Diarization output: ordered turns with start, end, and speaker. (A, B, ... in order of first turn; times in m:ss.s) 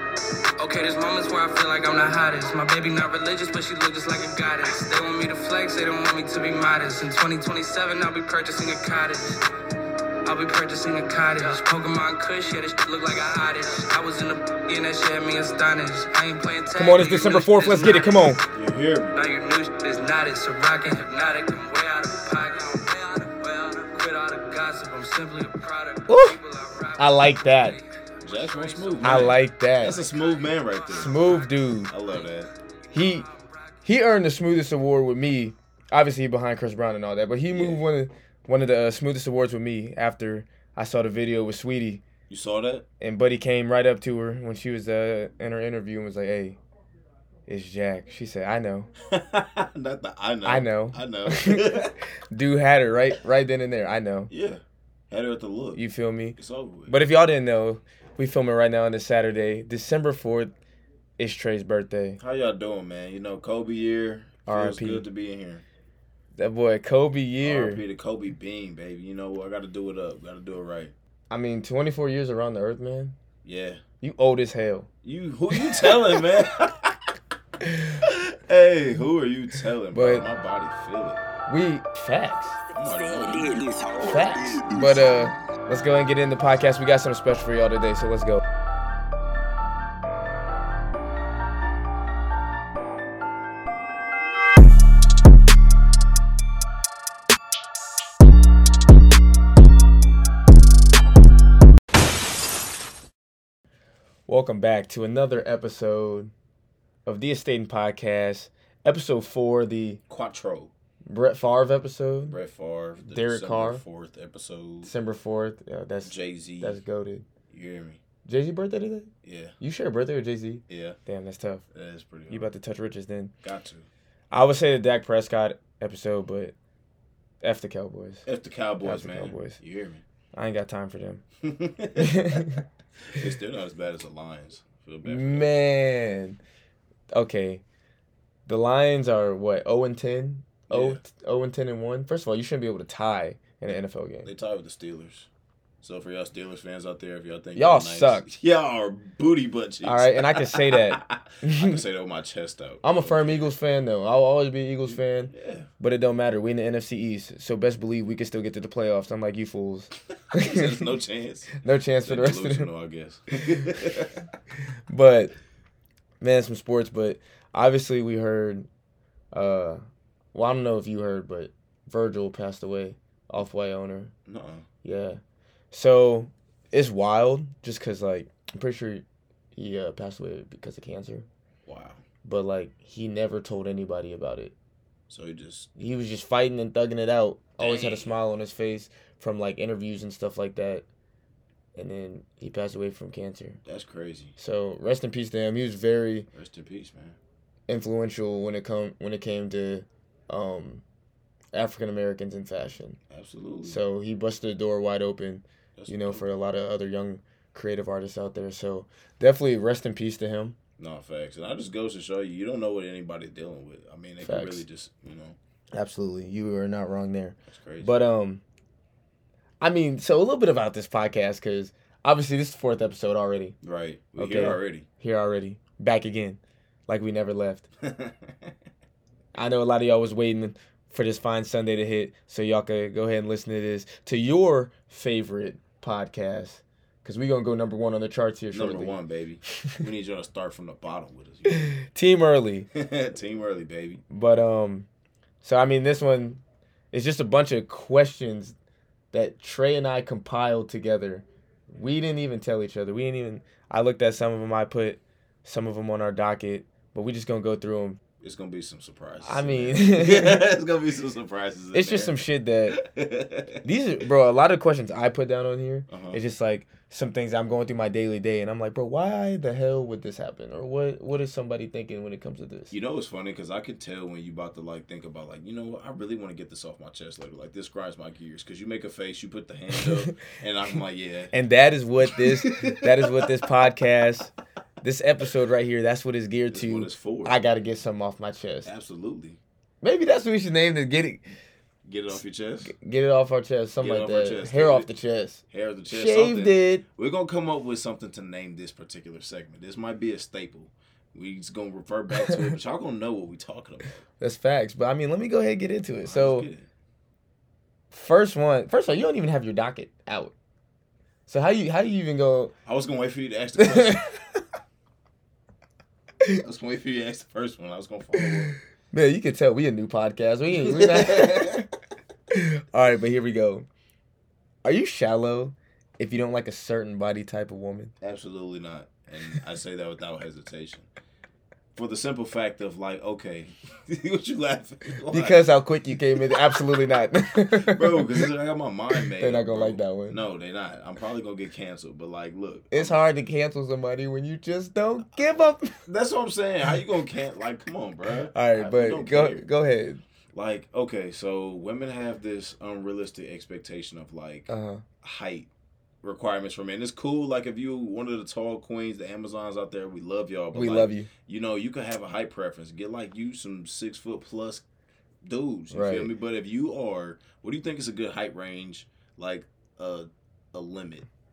0:00.6-0:09.4 A
0:10.2-0:18.4 A
0:16.8-0:18.4 B
0:18.5-0:19.2 C
0:19.1-0:31.5 A
0:26.1-0:26.4 B
0:27.0-0:27.8 B
0:28.2-0:31.2 C
0:29.0-0:30.0 B
0:30.9-0:31.9 B
0:31.9-0:32.5 C
0:32.9-0:33.8 A
0:32.9-0:33.3 B
0:33.8-0:42.0 B
0:37.5-0:37.8 C
0:42.3-0:42.8 C
0:43.0-0:46.6 B
0:47.5-0:48.9 B
0:49.1-0:52.0 C
0:50.4-0:54.3 B
0:54.3-0:55.8 C
0:55.8-1:00.5 B
0:56.4-0:57.0 C
1:01.2-1:02.2 B
1:02.2-1:05.6 C
1:04.5-1:05.1 B
1:06.4-1:07.8 B
1:07.4-1:10.9 C
1:11.3-1:13.2 B
1:13.4-1:13.8 C
1:14.0-1:14.9 B
1:15.0-1:17.1 C
1:17.6-1:18.0 B
1:18.0-1:21.2 C
1:19.9-1:20.3 B
1:21.5-1:22.6 B
1:22.8-1:23.8 C
1:24.0-1:28.4 B
1:44.3-1:46.3 B
1:47.1-1:50.0 B
1:50.1-1:50.7 C
1:51.1-1:52.4 B
1:52.3-1:54.9 C
1:53.0-1:53.8 B
1:54.8-1:57.3 B
1:56.0-1:56.8 C
1:57.5-1:58.0 C
1:58.2-2:01.6 B
1:59.2-1:59.6 C
2:00.7-2:01.0 C
2:01.7-2:02.5 C
2:02.3-2:03.3 B
2:03.4-2:03.9 C
2:04.3-2:06.6 B
2:07.4-2:08.3 B
2:08.2-2:10.0 C
2:08.8-2:09.6 B
2:10.4-2:11.2 B
2:11.4-2:12.5 C
2:12.0-2:12.6 B
2:13.0-2:15.5 C
2:15.0-2:16.4 B
2:17.1-2:17.6 B
2:18.5-2:24.3 B
2:20.7-2:21.0 C
2:24.2-2:25.3 C
2:25.8-2:33.5 C
2:27.6-2:28.3 B
2:29.8-2:31.8 B
2:32.8-2:40.9 B
2:34.9-2:35.7 C
2:40.3-2:44.2 C
2:41.6-2:42.7 B
2:44.9-2:45.4 B
2:46.2-2:48.7 B
2:49.3-2:49.8 B
2:50.3-2:54.1 B
2:54.3-2:54.7 C
2:54.8-2:55.2 B
2:55.7-3:01.3 B
3:01.7-3:02.0 C
3:02.2-3:04.6 B
3:05.1-3:05.7 C
3:05.8-3:10.9 B
3:07.6-3:08.2 C
3:11.8-3:13.6 B
3:13.6-3:14.3 C
3:14.4-3:16.3 B
3:16.3-3:17.2 C
3:17.7-3:20.8 B
3:21.5-3:23.0 B
3:23.1-3:23.8 C
3:23.6-3:30.6 B
3:25.8-3:26.3 C
3:30.8-3:35.4 C
3:34.2-3:34.6 B
3:35.7-3:38.4 B
3:37.5-3:37.9 C
3:39.6-3:43.6 B
3:43.6-3:44.9 C
3:44.2-3:47.7 B
3:47.8-3:48.5 C
3:49.4-3:59.0 B
3:58.5-4:01.8 C
4:01.5-4:02.7 B
4:02.7-4:04.0 C
4:04.1-4:04.9 B
4:05.4-4:06.4 B
4:06.9-4:08.6 B
4:09.1-4:18.0 B
4:18.2-4:23.6 C
4:19.2-4:20.5 B
4:21.7-4:22.8 B
4:23.6-4:32.7 B
4:25.9-4:26.2 C
4:32.7-4:41.3 C
4:39.7-4:40.2 B
4:41.3-4:48.7 B
4:42.0-4:43.4 C
4:46.5-4:47.4 C
4:48.6-4:49.4 C
4:49.8-4:51.3 B
4:51.8-4:52.7 C
4:52.6-4:56.8 B
4:53.8-4:54.9 C
4:55.5-5:03.9 C
5:04.2-5:06.5 B
5:06.1-5:06.7 C
5:07.9-5:10.3 B
5:11.3-5:12.5 B
5:12.6-5:14.0 C
5:13.6-5:14.2 B
5:16.4-5:18.6 C
5:18.9-5:21.7 B
5:20.5-5:21.6 C
5:22.3-5:23.7 B
5:24.6-5:27.9 B
5:28.0-5:30.9 C
5:31.7-5:35.4 C
5:35.1-5:38.3 B
5:37.5-5:43.0 C
5:39.0-5:40.2 B
5:42.7-5:45.8 B
5:45.9-5:49.5 C
5:48.3-5:50.0 B
5:50.3-5:55.5 C
5:54.5-5:54.8 B
5:56.0-6:04.6 C
6:00.5-6:01.1 B
6:05.2-6:11.1 C
6:05.7-6:06.1 B